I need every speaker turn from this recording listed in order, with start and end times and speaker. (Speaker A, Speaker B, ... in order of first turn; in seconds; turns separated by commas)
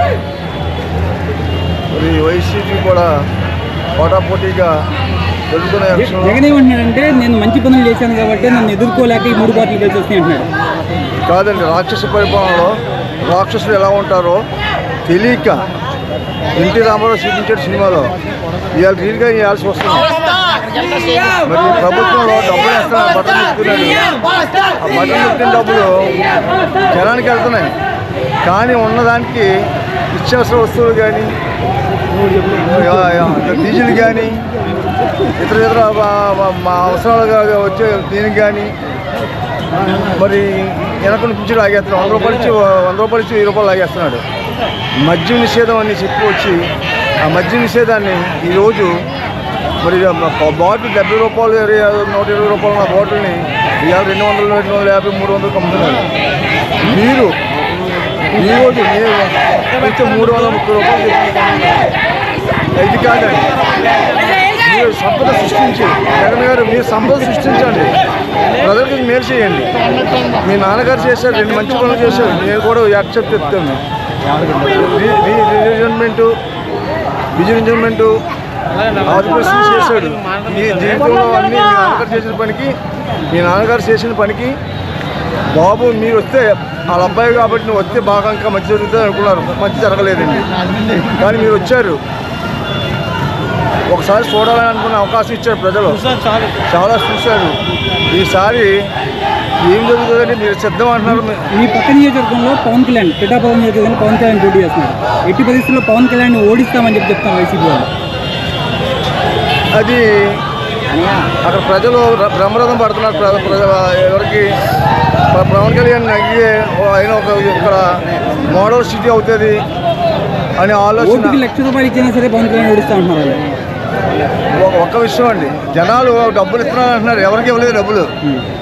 Speaker A: 1.9-3.1, Speaker A: 4.0-4.8, Speaker A: 5.5-6.4, Speaker B: 6.0-10.5, Speaker A: 11.3-14.4, Speaker A: 15.1-15.6, Speaker A: 16.6-18.1, Speaker A: 18.7-20.1, Speaker A: 21.4-24.1, Speaker A: 24.8-26.1, Speaker A: 26.9-27.7, Speaker A: 28.4-29.5, Speaker A: 30.1-31.3, Speaker A: 32.6-34.4, Speaker A: 35.4-38.7, Speaker A: 40.0-44.2, Speaker A: 45.0-46.7, Speaker A: 47.3-49.0, Speaker A: 49.8-56.0, Speaker A: 56.9-57.3, Speaker A: 58.3-61.5, Speaker A: 62.8-63.5, Speaker A: 64.5-67.9, Speaker A: 68.6-69.7, Speaker A: 70.4-73.8, Speaker A: 74.7-76.3, Speaker A: 77.3-78.1, Speaker A: 79.0-82.8, Speaker A: 83.3-84.6, Speaker A: 85.5-92.0, Speaker A: 93.9-96.0, Speaker A: 96.7-97.5, Speaker A: 98.1-98.8, Speaker A: 99.6-101.5, Speaker B: 101.5-107.9, Speaker A: 109.8-110.4, Speaker A: 111.4-114.5, Speaker A: 115.3-117.9, Speaker A: 118.5-119.6, Speaker A: 120.6-121.4, Speaker B: 121.0-123.4, Speaker A: 124.6-128.1